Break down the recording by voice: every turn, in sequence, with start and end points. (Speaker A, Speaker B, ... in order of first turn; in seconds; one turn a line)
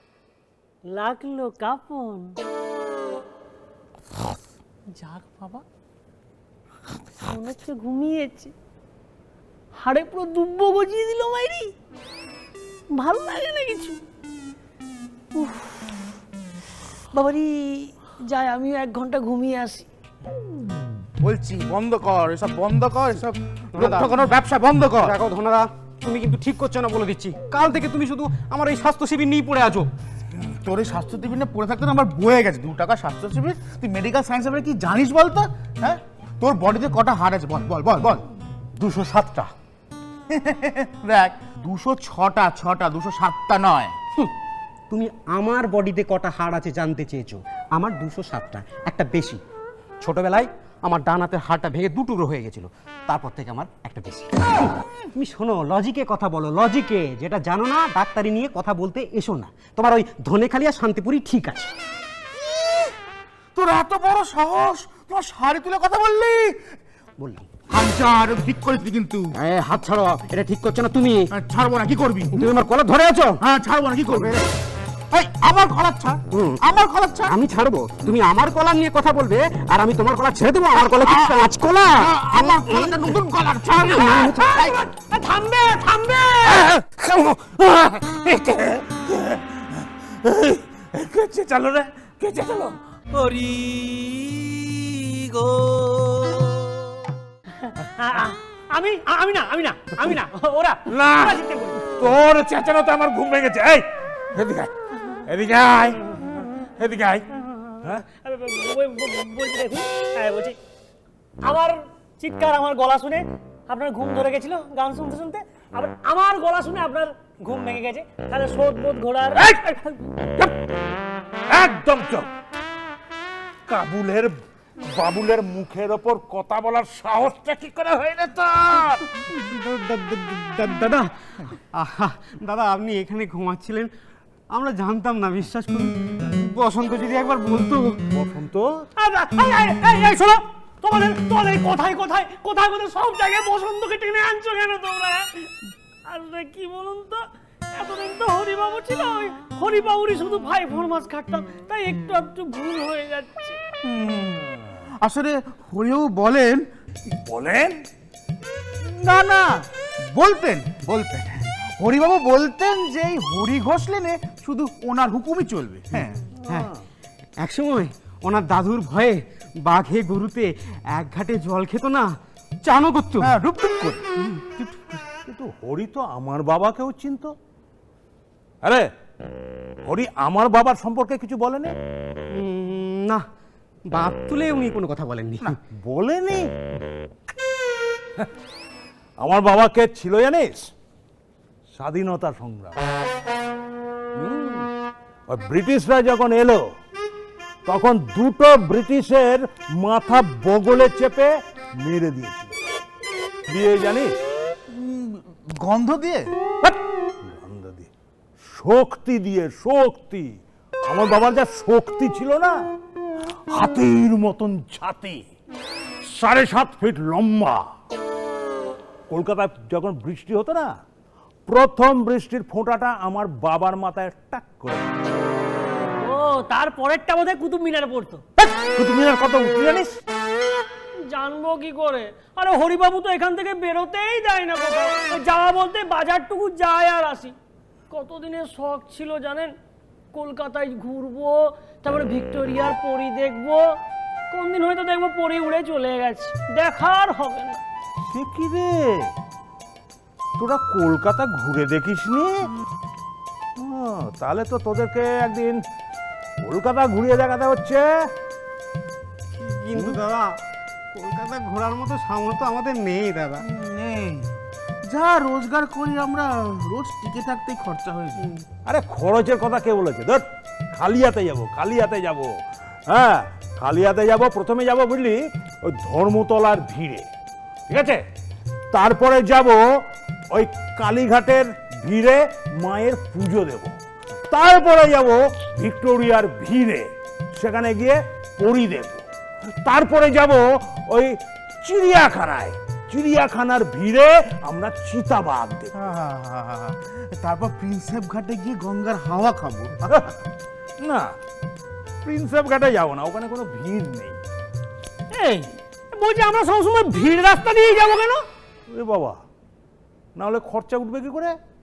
Speaker A: 0.9-2.4
Speaker A: 4.9-5.7
Speaker A: 7.2-8.5
Speaker A: 9.8-11.7
Speaker A: 12.9-14.0
Speaker A: 15.3-15.9
Speaker A: 17.1-19.9
Speaker B: 21.2-25.2
Speaker C: 23.8-24.1
Speaker C: 25.0-29.9
Speaker B: 30.4-38.2
Speaker C: 38.8-39.5
Speaker B: 40.3-44.0
Speaker C: 44.9-49.4
Speaker C: 50.0-61.7
Speaker B: 63.5-66.7
Speaker C: 67.2-67.5
Speaker B: 67.7-69.3
Speaker C: 69.3-71.3
Speaker B: 71.3-72.5
Speaker C: 72.3-73.4
Speaker B: 73.4-74.4
Speaker C: 74.1-74.5
Speaker B: 75.1-77.3
Speaker C: 76.3-76.6
Speaker C: 77.2-83.1
Speaker B: 81.0-84.4
Speaker C: 83.8-84.8
Speaker A: 84.0-86.7
Speaker D: 86.5-92.8
Speaker E: 93.1-96.7
Speaker A: 97.6-101.9
Speaker D: 100.9-104.7
Speaker D: 105.3-106.2
Speaker D: 106.8-107.3
Speaker A: 108.1-110.6
Speaker A: 111.4-119.9
Speaker D: 119.4-120.7
Speaker D: 121.5-122.3
Speaker D: 123.7-129.2
Speaker C: 129.3-133.9
Speaker C: 134.5-138.0
Speaker D: 138.1-138.8
Speaker A: 139.0-145.5
Speaker A: 146.1-153.6
Speaker B: 153.8-156.7
Speaker D: 157.1-157.8
Speaker B: 158.8-166.2
Speaker C: 166.5-166.7
Speaker D: 166.5-166.8
Speaker C: 167.4-173.3
Speaker B: 173.2-174.1
Speaker C: 174.2-175.0
Speaker D: 175.3-177.3
Speaker D: 178.6-178.9
Speaker D: 179.9-181.7
Speaker C: 182.3-183.3
Speaker C: 183.9-185.6
Speaker D: 185.5-186.5
Speaker D: 189.2-190.7
Speaker D: 191.8-192.8
Speaker D: 194.2-194.7
Speaker D: 195.3-196.7
Speaker D: 197.7-202.6
Speaker D: 203.5-204.1
Speaker B: 204.7-206.3
Speaker D: 206.6-207.9
Speaker D: 208.4-212.6
Speaker D: 213.5-215.2
Speaker D: 216.1-217.7
Speaker D: 219.1-220.8
Speaker D: 221.5-224.9
Speaker A: 226.0-228.2
Speaker D: 228.4-230.0
Speaker A: 231.1-237.3
Speaker A: 237.9-239.6
Speaker A: 240.1-243.8
Speaker A: 244.3-247.6
Speaker D: 248.1-249.1
Speaker D: 250.4-252.5
Speaker D: 253.6-255.6
Speaker D: 256.4-257.9
Speaker C: 259.4-260.4
Speaker C: 260.9-263.4
Speaker B: 263.4-264.3
Speaker B: 264.9-268.3
Speaker D: 268.7-277.1
Speaker D: 277.7-278.0
Speaker D: 278.7-283.8
Speaker D: 284.3-295.7
Speaker B: 295.8-299.8
Speaker D: 299.8-300.1
Speaker D: 300.8-301.2
Speaker D: 302.1-304.2
Speaker A: 305.1-308.2
Speaker D: 308.7-309.2
Speaker D: 310.2-311.4